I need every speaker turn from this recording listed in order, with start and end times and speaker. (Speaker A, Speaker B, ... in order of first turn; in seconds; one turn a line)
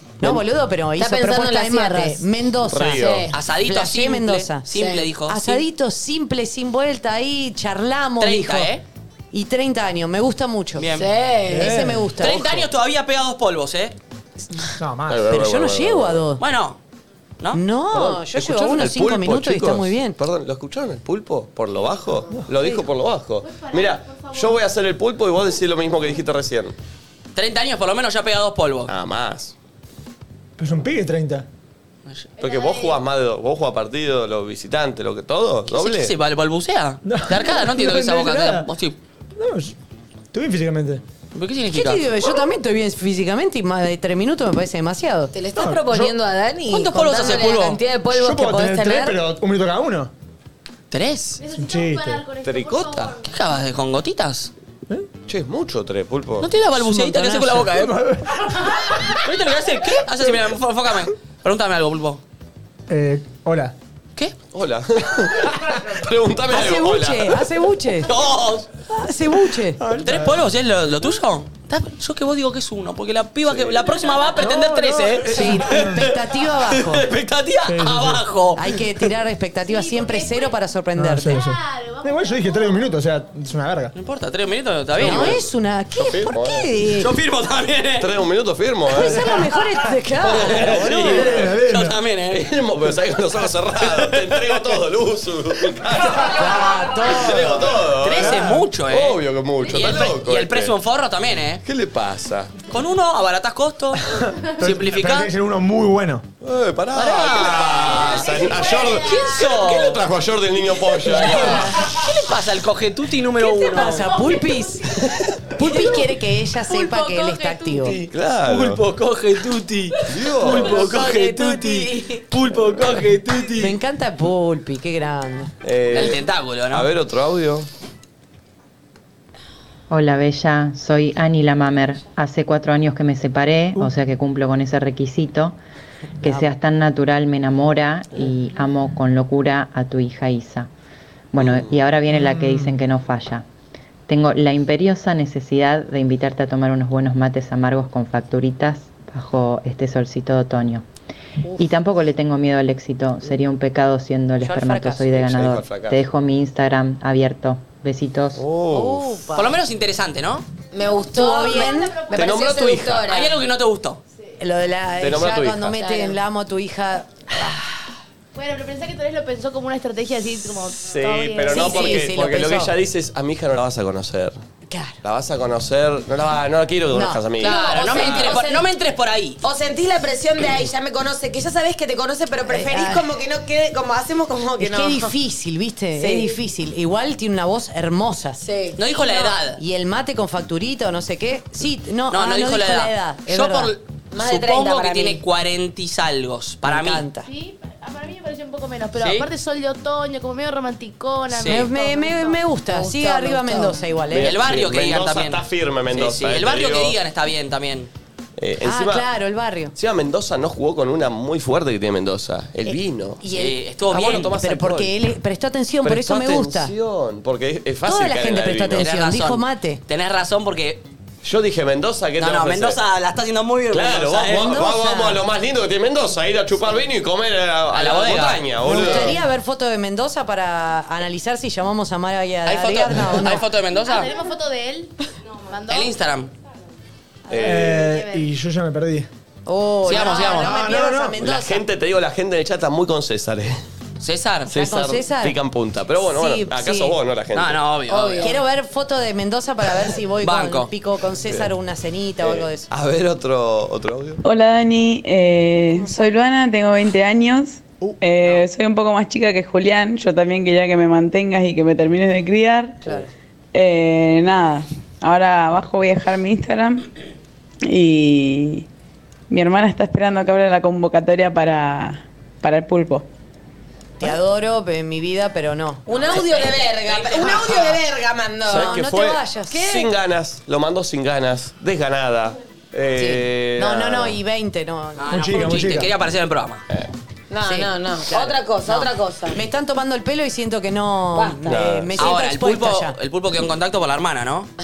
Speaker A: 0.2-4.7
Speaker B: 1.0-2.2
Speaker C: 2.7-3.3
Speaker B: 2.9-3.3
Speaker D: 3.3-5.6
Speaker B: 4.7-5.0
Speaker A: 5.3-8.7
Speaker D: 8.2-8.8
Speaker A: 9.3-10.9
Speaker D: 10.8-11.1
Speaker B: 10.9-11.8
Speaker E: 11.5-12.1
Speaker A: 11.5-12.6
Speaker D: 12.2-13.9
Speaker E: 14.8-15.2
Speaker C: 15.1-16.2
Speaker A: 15.3-16.4
Speaker D: 16.4-16.8
Speaker A: 17.5-20.1
Speaker C: 17.9-26.7
Speaker F: 21.7-22.2
Speaker A: 22.6-22.8
Speaker F: 23.4-24.6
Speaker D: 27.3-28.9
Speaker C: 28.9-29.5
Speaker E: 30.6-31.4
Speaker F: 32.4-33.0
Speaker C: 32.4-36.1
Speaker D: 35.7-39.0
Speaker E: 37.0-38.7
Speaker E: 39.4-39.7
Speaker E: 40.3-41.0
Speaker D: 41.3-42.0
Speaker A: 41.7-45.3
Speaker B: 45.3-49.2
Speaker E: 45.5-46.1
Speaker D: 46.7-47.8
Speaker E: 48.1-50.1
Speaker D: 50.9-51.4
Speaker F: 51.4-53.3
Speaker E: 51.5-52.2
Speaker C: 52.4-53.1
Speaker D: 53.2-54.5
Speaker C: 55.3-56.5
Speaker D: 56.4-58.0
Speaker A: 56.8-57.7
Speaker E: 57.8-58.4
Speaker D: 59.2-62.2
Speaker E: 62.9-63.7
Speaker C: 64.5-67.4
Speaker A: 66.5-68.1
Speaker D: 68.1-68.7
Speaker A: 68.9-69.8
Speaker E: 69.8-70.4
Speaker D: 70.0-76.1
Speaker C: 73.5-74.0
Speaker E: 74.4-76.1
Speaker A: 75.3-77.0
Speaker D: 76.7-78.8
Speaker E: 77.7-78.2
Speaker A: 78.5-81.4
Speaker F: 79.6-80.6
Speaker E: 81.0-83.9
Speaker F: 81.3-82.9
Speaker D: 83.9-85.4
Speaker A: 85.0-87.1
Speaker C: 85.0-85.4
Speaker C: 86.0-86.7
Speaker D: 87.0-88.1
Speaker C: 88.0-89.4
Speaker A: 88.9-91.2
Speaker D: 90.2-92.5
Speaker C: 90.3-91.5
Speaker E: 91.0-92.0
Speaker C: 92.3-100.7
Speaker D: 93.9-94.6
Speaker A: 96.2-97.7
Speaker D: 98.0-101.6
Speaker C: 101.6-102.6
Speaker D: 102.7-104.0
Speaker E: 104.1-106.3
Speaker D: 104.6-105.3
Speaker C: 106.4-111.8
Speaker D: 106.9-110.0
Speaker F: 107.9-109.5
Speaker D: 111.0-114.1
Speaker A: 113.5-118.0
Speaker F: 113.5-114.6
Speaker F: 115.6-115.9
Speaker F: 116.7-117.9
Speaker C: 117.9-118.8
Speaker D: 118.4-123.8
Speaker C: 120.1-120.8
Speaker A: 120.5-122.0
Speaker A: 123.6-125.5
Speaker C: 125.6-127.7
Speaker D: 125.9-126.9
Speaker G: 129.9-135.6
Speaker G: 136.2-140.7
Speaker G: 141.3-143.4
Speaker C: 141.4-141.7
Speaker E: 142.2-142.7
Speaker G: 144.1-150.8
Speaker G: 151.6-158.4
Speaker A: 154.4-155.1
Speaker C: 155.1-156.0
Speaker C: 158.3-159.2
Speaker A: 158.7-159.6
Speaker D: 159.3-160.4
Speaker B: 160.7-163.3
Speaker A: 161.1-162.0
Speaker F: 161.4-162.4
Speaker C: 162.1-163.1
Speaker D: 163.1-164.0
Speaker A: 164.4-167.6
Speaker C: 165.0-165.8
Speaker B: 165.8-166.2
Speaker F: 168.3-172.1
Speaker C: 170.8-174.4
Speaker A: 171.4-172.7
Speaker A: 174.7-175.0
Speaker C: 175.0-178.3
Speaker A: 176.9-177.2
Speaker D: 177.4-179.4
Speaker B: 177.4-178.7
Speaker B: 179.4-185.1
Speaker A: 182.5-183.1
Speaker A: 184.6-188.4
Speaker B: 186.0-186.3
Speaker B: 188.4-188.8
Speaker D: 188.8-189.6
Speaker A: 189.1-193.7
Speaker D: 192.1-197.1
Speaker B: 194.1-195.2
Speaker A: 196.6-197.3
Speaker F: 197.2-202.4
Speaker D: 198.9-199.3
Speaker D: 201.3-201.7
Speaker A: 201.4-204.4
Speaker B: 202.7-203.7
Speaker C: 204.1-207.0
Speaker D: 204.1-207.9
Speaker C: 208.4-209.1
Speaker A: 208.6-209.7
Speaker C: 209.8-213.2
Speaker A: 212.7-216.7
Speaker D: 213.3-214.4
Speaker C: 213.9-214.9
Speaker C: 215.8-218.9
Speaker A: 217.8-219.8
Speaker D: 218.8-220.8
Speaker C: 221.2-222.8
Speaker D: 222.2-224.6
Speaker C: 223.7-229.2
Speaker A: 224.3-225.2
Speaker D: 227.7-229.1
Speaker A: 228.7-233.4
Speaker D: 232.4-234.1
Speaker F: 233.7-236.0
Speaker D: 235.7-236.3
Speaker F: 237.3-238.3
Speaker C: 237.3-237.8
Speaker E: 237.4-239.1
Speaker A: 239.4-241.6
Speaker D: 239.8-240.5
Speaker E: 240.4-241.2
Speaker C: 241.2-243.6
Speaker D: 244.0-244.5
Speaker C: 244.5-247.7
Speaker A: 244.5-245.4
Speaker A: 246.0-247.0
Speaker D: 247.3-248.4
Speaker B: 247.9-248.3
Speaker A: 248.2-252.7
Speaker D: 250.2-250.7
Speaker C: 252.2-254.2
Speaker H: 254.2-262.8
Speaker H: 263.5-266.9
Speaker H: 267.6-268.6
Speaker H: 269.3-273.1
Speaker A: 274.0-275.8
Speaker B: 275.9-278.8
Speaker D: 276.0-277.8
Speaker A: 278.5-279.9
Speaker C: 278.5-284.2
Speaker A: 282.9-285.2
Speaker D: 285.0-286.6
Speaker E: 285.1-285.9
Speaker B: 287.3-289.4
Speaker A: 287.4-292.9
Speaker B: 291.1-291.6
Speaker C: 291.4-292.1
Speaker D: 291.9-294.5